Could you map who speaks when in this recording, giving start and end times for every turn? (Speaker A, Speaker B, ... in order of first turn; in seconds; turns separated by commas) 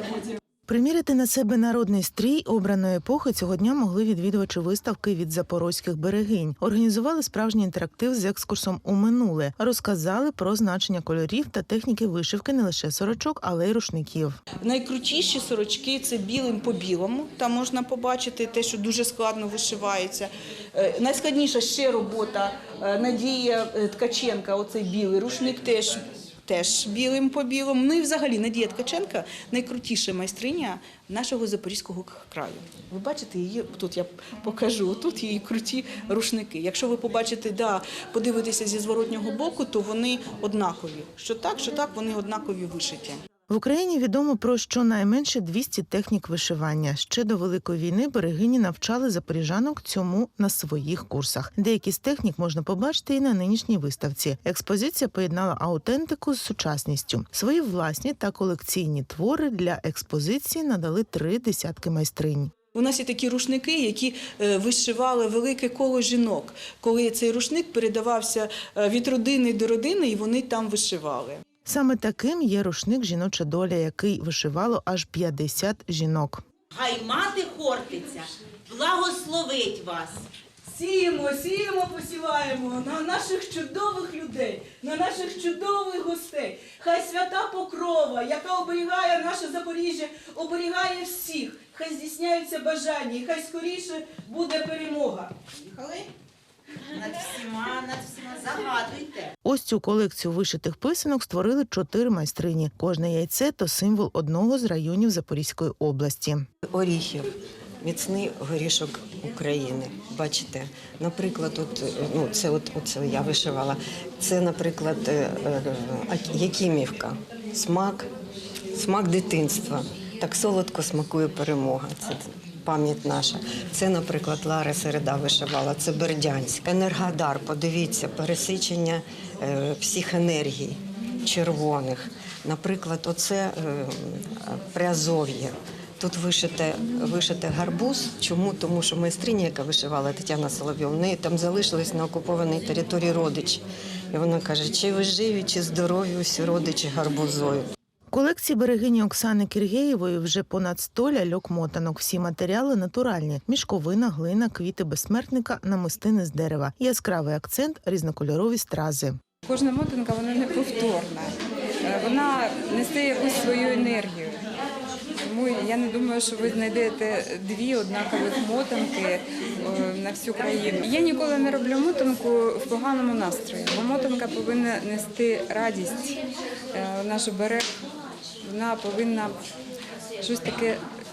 Speaker A: 0.7-14.4, Speaker B: 14.6-43.2, Speaker A: 43.5-62.5, Speaker B: 62.7-71.4, Speaker A: 71.7-76.4, Speaker C: 76.8-78.2, Speaker C: 78.7-80.2, Speaker B: 80.7-95.3, Speaker C: 97.4-99.2, Speaker A: 99.4-106.5, Speaker D: 106.7-118.1, Speaker D: 118.7-147.7, Speaker A: 148.1-159.2, Speaker E: 159.5-161.3, Speaker E: 161.8-164.4, Speaker E: 165.2-176.2, Speaker E: 176.7-177.7, Speaker E: 178.4-179.4, Speaker E: 180.2-180.8